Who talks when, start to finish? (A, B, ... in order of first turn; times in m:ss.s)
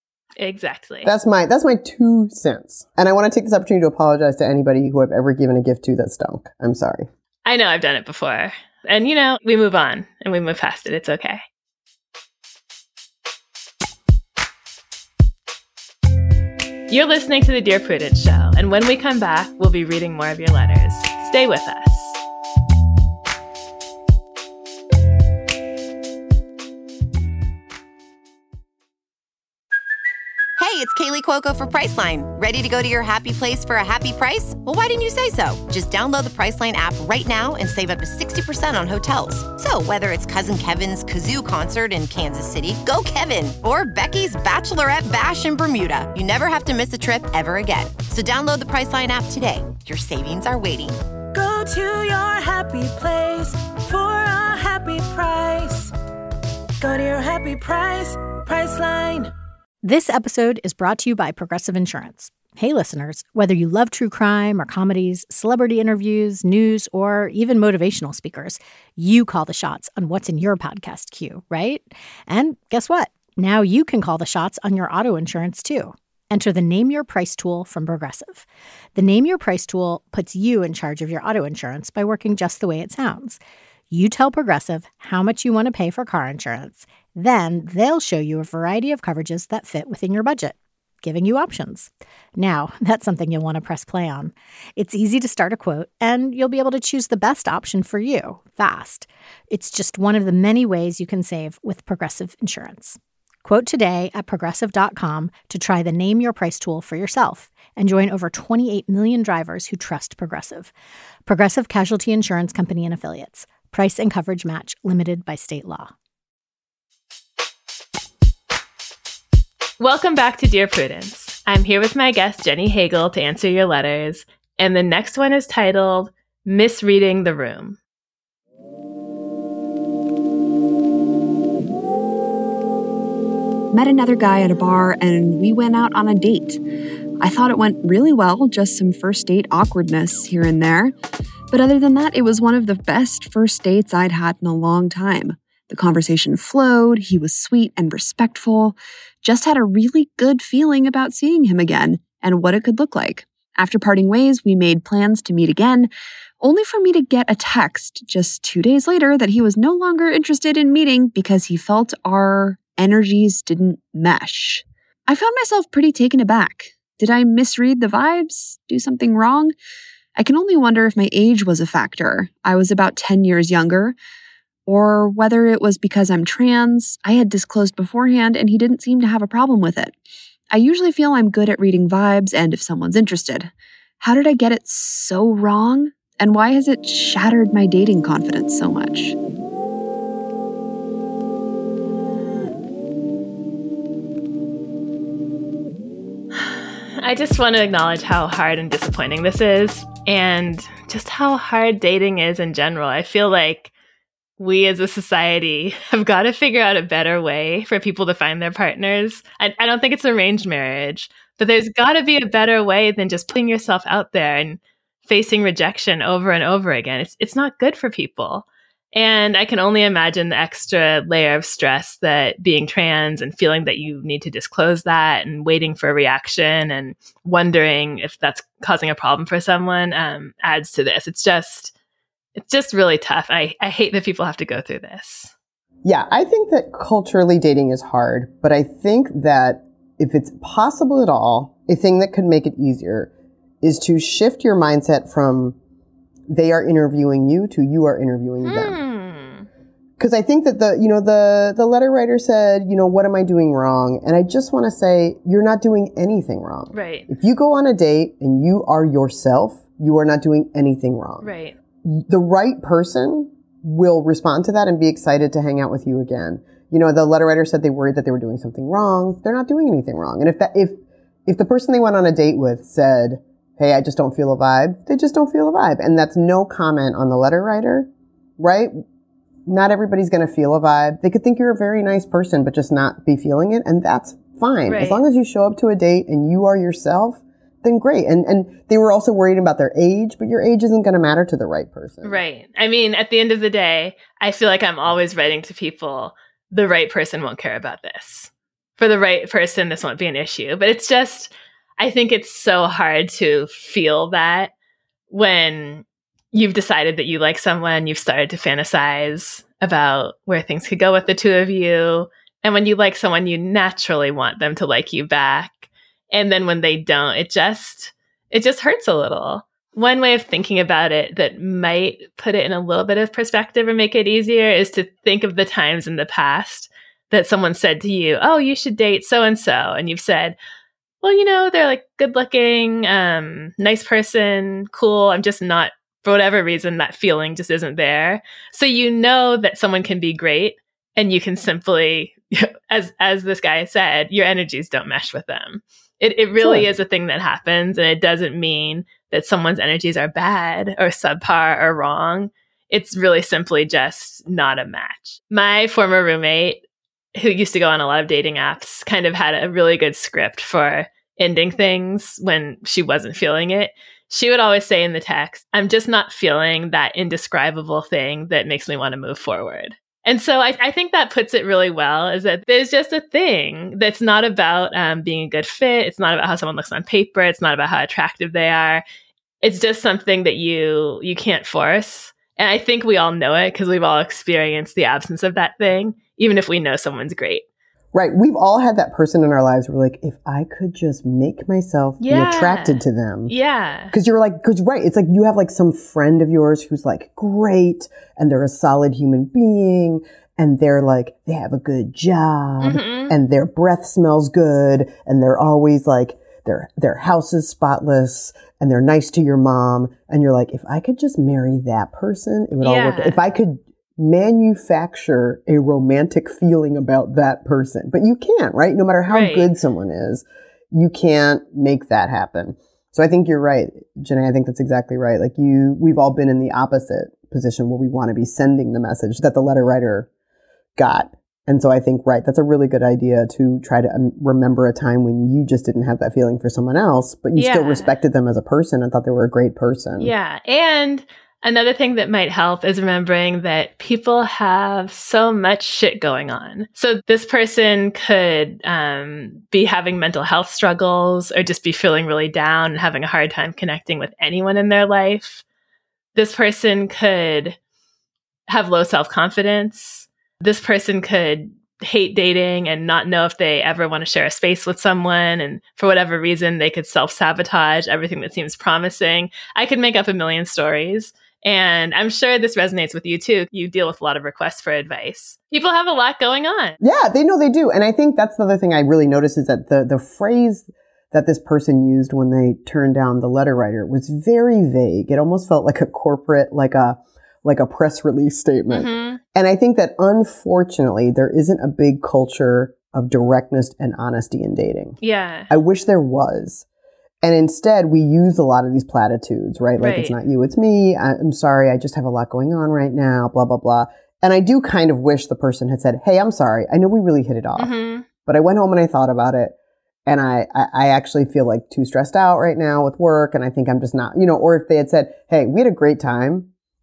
0:00.4-0:01.1 A
0:01.0-0:07.1 B
0:07.5-0:11.4 A
0:16.9-0:22.2 A
0:30.6-0:51.0 C
0:51.3-0:55.9 D
0:56.8-0:59.3 D
0:59.8-1:23.4 E
1:23.9-1:50.7 E
1:51.2-1:55.9 E
1:59.8-2:07.8 A
2:13.7-2:16.6 F
2:17.2-2:20.9 F
2:21.5-2:49.5 F
2:50.2-2:54.0 F
2:54.7-2:59.9 F
3:00.5-3:09.2 F
3:16.4-3:23.7 A
3:24.4-3:51.7 A
3:52.4-3:55.3 A
3:55.8-4:03.1 B
4:03.6-4:05.6 B
4:06.3-4:08.8 B
4:08.4-4:09.5 A
4:10.0-4:21.3 B
4:16.7-4:17.1 A
4:21.2-4:21.5 A
4:21.8-4:38.8 B
4:39.5-4:52.2 B
4:44.7-4:45.0 A
4:52.0-5:04.5 A
5:05.1-5:30.4 A
5:31.0-5:56.6 A
5:46.4-5:46.7 B
5:57.2-6:18.8 A
6:19.4-6:27.4 A
6:27.9-6:33.3 B
6:32.0-6:33.9 A
6:33.9-7:10.1 B
6:42.6-6:43.2 A
6:52.6-6:53.2 A
6:59.1-6:59.5 A
7:10.8-7:20.1 B
7:17.3-7:17.9 A
7:20.0-7:35.4 A
7:36.2-7:37.6 A
7:38.5-7:56.8 A
7:56.8-8:16.6 B
8:08.7-8:09.2 A
8:15.0-8:15.5 A
8:17.2-8:36.5 B
8:19.8-8:20.2 A
8:27.6-8:28.0 A